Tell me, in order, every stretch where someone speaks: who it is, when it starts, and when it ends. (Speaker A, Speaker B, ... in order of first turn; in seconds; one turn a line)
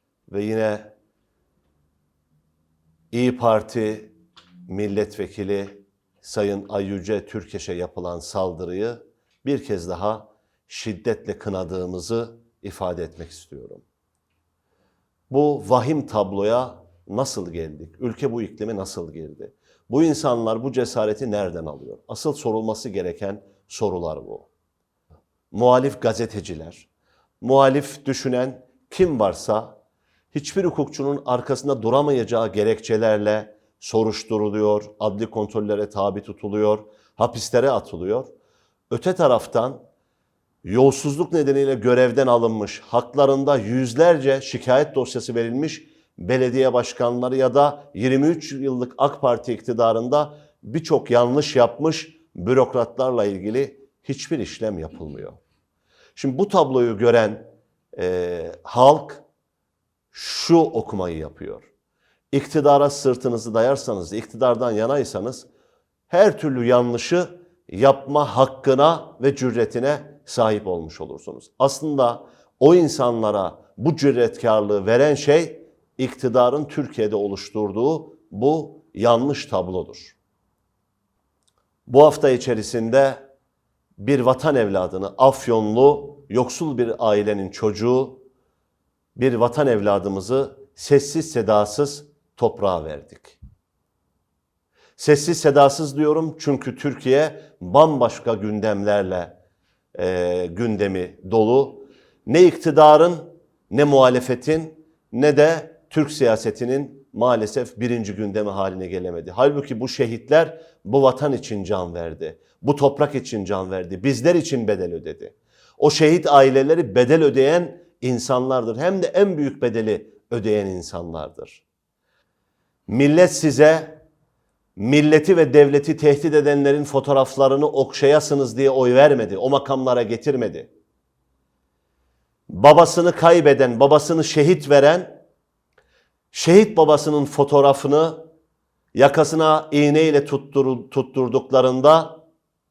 Speaker A: 0.3-0.9
Speaker A: 3.1-4.1
Speaker A: 4.7-13.8
Speaker A: 15.3-24.5
Speaker A: 25.5-26.9
Speaker A: 27.4-29.8
Speaker A: 30.3-38.3
Speaker A: 38.9-39.8
Speaker A: 40.6-55.4
Speaker A: 56.1-59.2
Speaker A: 60.1-61.7
Speaker A: 62.3-65.5
Speaker A: 66.1-80.2
Speaker A: 81.8-83.3
Speaker A: 84.0-88.2
Speaker A: 89.2-93.4
Speaker A: 95.0-99.4
Speaker A: 99.9-121.6
Speaker A: 122.9-124.0
Speaker A: 124.8-130.7
Speaker A: 132.5-135.2
Speaker A: 136.3-138.3
Speaker A: 138.9-142.2